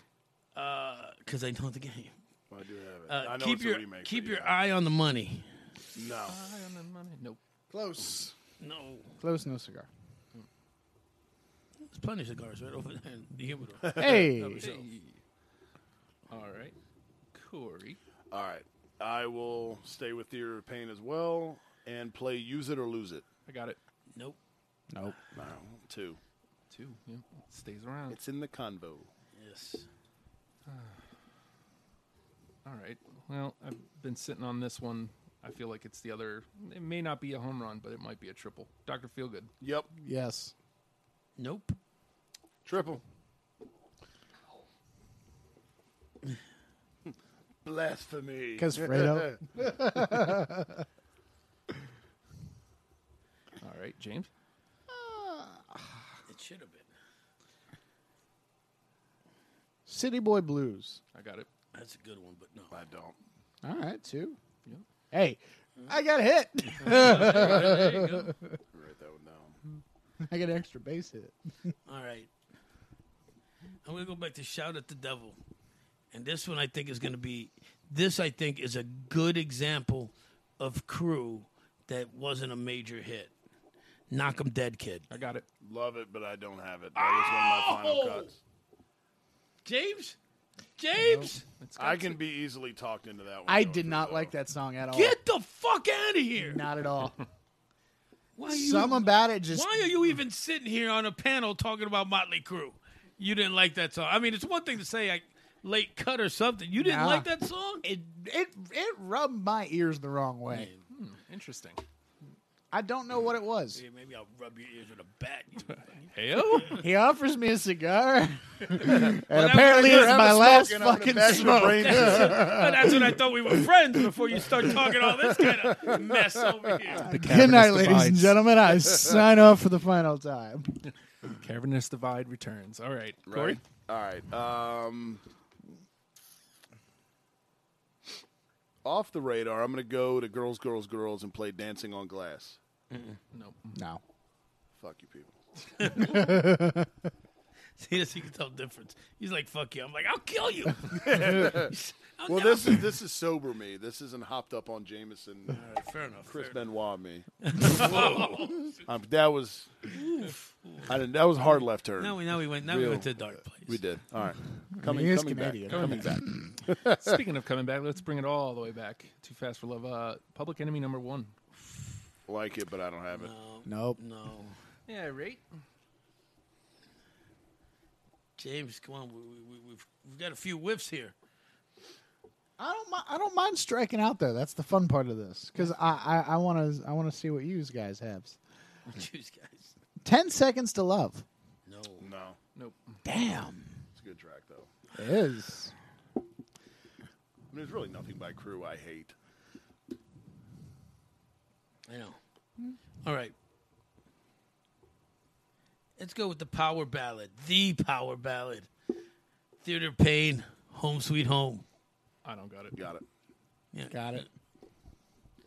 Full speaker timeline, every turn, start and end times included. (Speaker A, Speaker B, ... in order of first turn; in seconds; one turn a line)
Speaker A: 0.6-2.1
Speaker B: 2.5-4.5
Speaker A: 3.1-5.5
Speaker B: 6.0-6.4
Speaker C: 6.3-7.4
Speaker D: 7.7-8.3
Speaker A: 8.6-9.1
Speaker D: 9.2-9.9
Speaker A: 11.8-14.8
Speaker B: 13.8-14.3
Speaker D: 14.0-14.7
Speaker C: 14.5-15.2
Speaker C: 16.3-16.8
Speaker C: 17.3-18.0
Speaker B: 18.3-23.2
Speaker C: 23.5-23.8
Speaker D: 24.9-25.2
Speaker B: 25.3-26.2
Speaker C: 26.7-28.2
Speaker B: 28.1-29.1
Speaker A: 29.4-29.9
Speaker C: 30.7-31.0
Speaker C: 32.6-39.5
Speaker B: 39.6-39.9
Speaker D: 40.0-40.5
Speaker A: 41.4-41.8
Speaker B: 42.6-43.0
Speaker B: 47.6-49.6
Speaker D: 48.6-50.8
Speaker C: 53.6-54.3
Speaker D: 54.9-56.1
Speaker A: 56.3-56.9
Speaker D: 59.9-61.0
Speaker C: 61.1-61.5
Speaker A: 61.7-62.8
Speaker B: 62.7-63.1
Speaker D: 63.6-64.4
Speaker D: 65.1-68.6
Speaker A: 66.8-68.3
Speaker B: 68.7-69.6
Speaker D: 70.2-71.7
Speaker A: 71.9-72.3
Speaker A: 73.8-75.4
Speaker A: 76.1-83.3
Speaker A: 84.1-85.1
Speaker C: 85.1-85.5
Speaker B: 85.6-88.4
Speaker A: 87.0-88.3
Speaker A: 89.7-90.2
Speaker A: 90.8-91.5
Speaker D: 91.0-91.3
Speaker C: 91.6-92.2
Speaker B: 91.8-94.3
Speaker D: 93.5-95.2
Speaker A: 94.9-96.6
Speaker D: 96.4-97.2
Speaker A: 98.4-107.8
Speaker D: 98.5-99.8
Speaker D: 106.8-107.3
Speaker D: 107.8-110.7
Speaker A: 110.5-110.8
Speaker C: 110.9-111.8
Speaker D: 112.7-113.8
Speaker A: 113.8-116.8
Speaker C: 115.7-116.8
Speaker D: 116.8-123.2
Speaker A: 118.8-120.3
Speaker B: 119.7-122.9
Speaker A: 121.3-127.1
Speaker B: 125.3-126.4
Speaker D: 126.9-130.8
Speaker C: 127.1-128.4
Speaker C: 131.2-133.6
Speaker B: 133.3-135.2
Speaker B: 138.8-142.6
Speaker A: 142.9-143.2
Speaker C: 143.3-143.8
Speaker D: 143.8-144.0
Speaker B: 144.8-145.4
Speaker A: 145.8-146.5
Speaker D: 146.0-146.9
Speaker A: 147.8-152.9
Speaker B: 150.9-155.6
Speaker A: 155.5-156.6
Speaker B: 156.3-160.0
Speaker A: 157.4-158.8
Speaker A: 159.9-161.0
Speaker B: 160.9-167.2
Speaker A: 162.0-163.8
Speaker D: 164.7-166.5
Speaker C: 166.9-171.4
Speaker B: 172.3-173.3
Speaker A: 173.1-174.6
Speaker D: 173.7-174.0
Speaker C: 174.9-175.4
Speaker A: 178.4-181.1
Speaker D: 182.6-188.4
Speaker A: 188.9-189.7
Speaker D: 190.0-191.2
Speaker A: 191.7-192.1
Speaker B: 192.0-192.4
Speaker C: 192.6-193.0
Speaker D: 193.1-193.8
Speaker B: 193.9-194.7
Speaker D: 194.9-195.7
Speaker B: 197.5-199.2
Speaker A: 201.9-202.2
Speaker A: 203.0-203.3
Speaker A: 206.0-208.7
Speaker A: 209.6-211.7
Speaker C: 212.2-212.8
Speaker B: 212.8-213.0
Speaker A: 213.7-214.3
Speaker D: 213.9-214.3